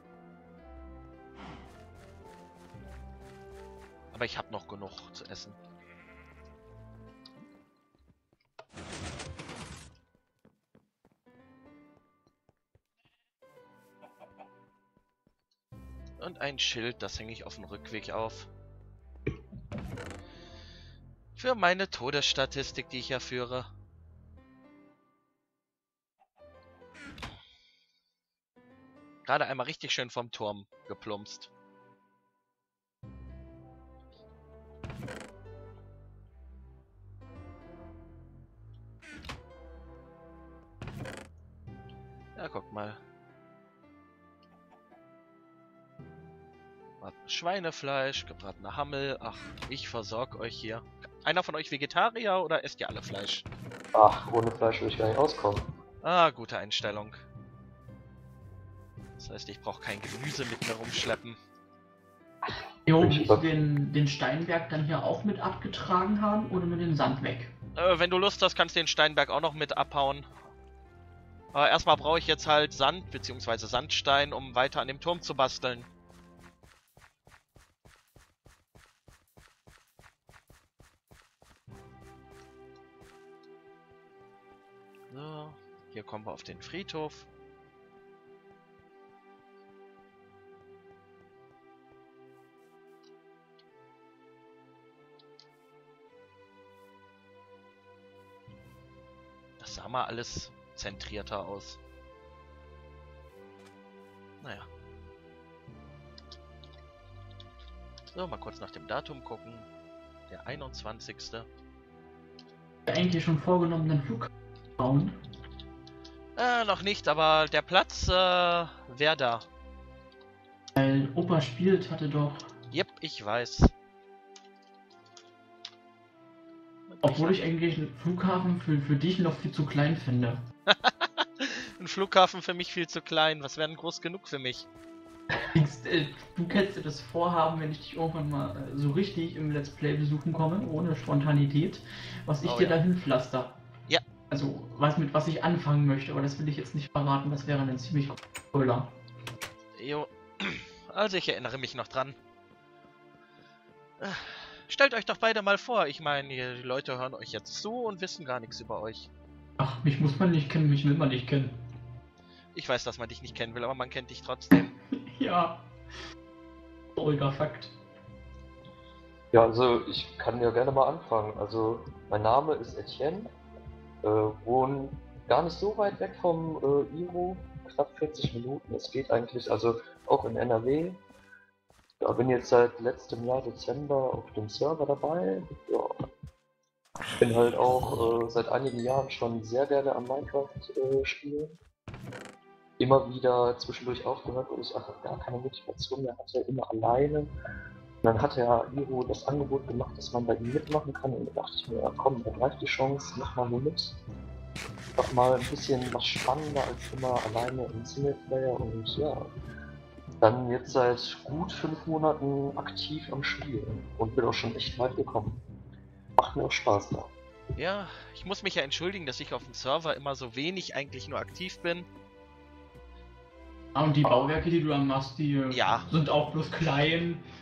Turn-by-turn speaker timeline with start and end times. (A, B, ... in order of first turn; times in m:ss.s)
0:04.1-0:05.6 A
0:16.2-0:18.5 A
0:21.4-0:23.7 A
0:29.2-0:31.5 A
0:42.4-0:43.0 A
0:47.0-0:53.4 A
0:53.9-0:55.6 B
0:56.0-0:57.2 A
0:59.2-1:01.4 A
1:02.4-1:03.5 B
1:02.8-1:07.5 C
1:07.8-1:10.2 A
1:11.5-1:15.9 A
1:25.1-1:27.2 A
1:39.6-1:41.8 A
1:44.4-1:44.7 A
1:48.1-1:49.7 A
1:50.3-1:51.5 A
1:52.8-1:55.1 C
1:56.4-1:59.4 A
2:00.7-2:02.5 C
2:02.7-2:03.7 A
2:06.9-2:07.4 A
2:07.0-2:10.4 C
2:10.7-2:14.7 A
2:15.5-2:23.6 C
2:22.4-2:22.8 A
2:24.3-2:28.9 C
2:29.8-2:32.2 A
2:34.0-2:39.1 A
2:39.6-2:41.6 C
2:42.5-2:44.7 A
2:44.5-2:45.6 C
2:47.0-2:47.7 C
2:49.3-2:53.3 B
2:54.0-3:01.0 B
3:02.0-3:05.9 B
3:07.2-3:11.6 B
3:12.8-3:17.3 B
3:18.0-3:24.0 B
3:25.0-3:29.3 B
3:30.2-3:35.4 B
3:36.2-3:37.1 B
3:37.6-3:41.9 A
3:43.7-3:47.2 C
3:45.5-3:45.9 A